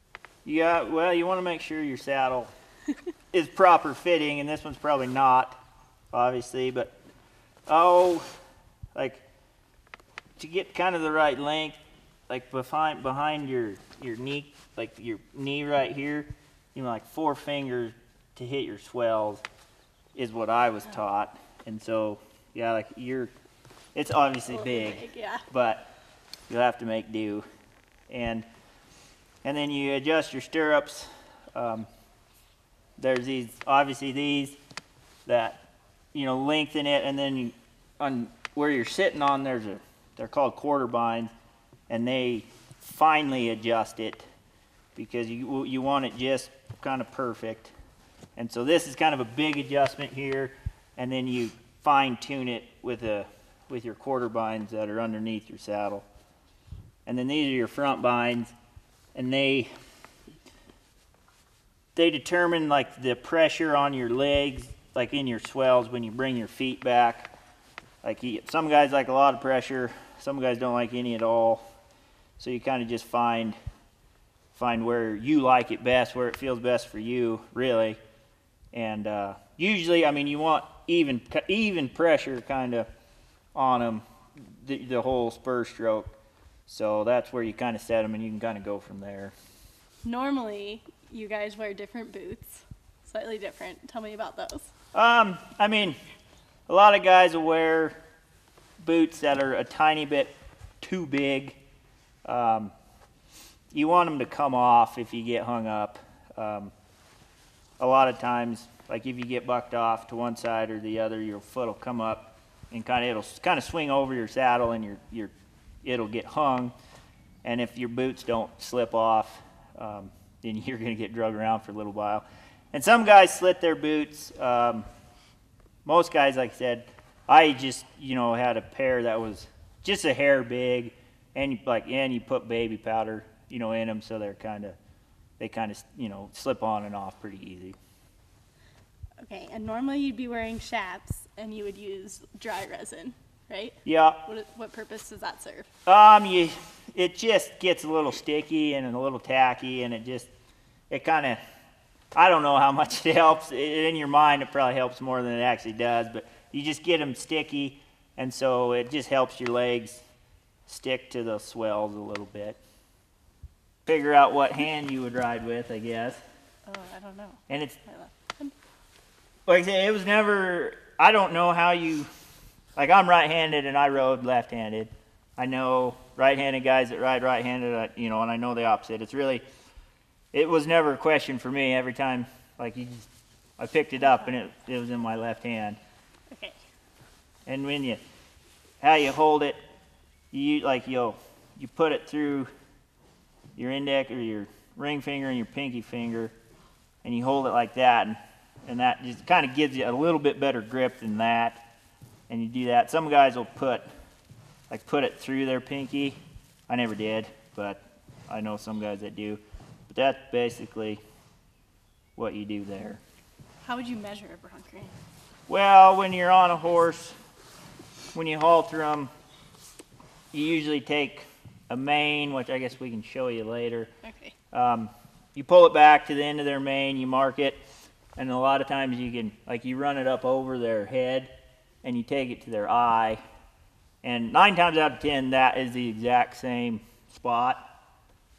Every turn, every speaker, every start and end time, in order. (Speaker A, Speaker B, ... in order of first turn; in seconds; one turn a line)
Speaker A: 0.5-2.5
Speaker A: 3.3-7.0
Speaker A: 7.7-8.3
Speaker A: 8.9-9.2
Speaker A: 10.4-19.4
Speaker A: 20.1-23.3
Speaker A: 23.9-25.9
Speaker B: 24.5-25.4
Speaker A: 26.5-27.4
Speaker A: 28.1-28.5
Speaker A: 29.4-31.9
Speaker A: 33.0-34.6
Speaker A: 35.3-35.6
Speaker A: 36.1-41.3
Speaker A: 41.9-44.2
Speaker A: 45.0-47.7
Speaker A: 48.4-56.0
Speaker A: 57.1-58.5
Speaker A: 59.1-59.7
Speaker A: 62.0-67.3
Speaker A: 68.0-71.6
Speaker A: 72.4-73.6
Speaker A: 74.5-78.0
Speaker A: 78.7-82.9
Speaker A: 83.5-86.2
Speaker A: 86.7-89.3
Speaker B: 90.0-94.7
Speaker A: 94.9-96.0
Speaker A: 96.7-98.0
Speaker A: 98.8-101.6
Speaker A: 102.2-102.7
Speaker A: 103.7-106.7
Speaker A: 107.8-115.3
Speaker A: 115.8-116.7
Speaker A: 117.4-124.9
Speaker A: 125.8-134.8
Speaker A: 135.4-137.8
Speaker B: 139.2-145.7
Speaker A: 143.8-144.2
Speaker A: 145.9-150.3
Speaker A: 150.9-151.4
Speaker A: 152.1-160.0
Speaker A: 160.7-162.6
Speaker A: 163.9-166.2
Speaker B: 166.7-168.6
Speaker A: 167.5-167.8
Speaker A: 169.5-172.1
Speaker A: 172.8-179.4
Speaker A: 180.3-183.1
Speaker A: 183.6-185.8
Speaker B: 186.3-186.6
Speaker A: 187.5-188.0
Speaker A: 188.8-189.6
Speaker A: 190.3-192.5
Speaker A: 193.6-196.3
Speaker A: 197.0-201.6
Speaker A: 202.3-203.9
Speaker A: 204.7-206.2
Speaker A: 206.7-211.0
Speaker A: 212.2-213.0
Speaker B: 213.6-214.9
Speaker A: 215.5-217.2
Speaker A: 218.1-219.1
Speaker A: 220.3-223.9
Speaker B: 224.0-224.3
Speaker A: 224.5-227.6
Speaker A: 228.2-231.3
Speaker A: 231.8-233.2
Speaker A: 234.0-237.6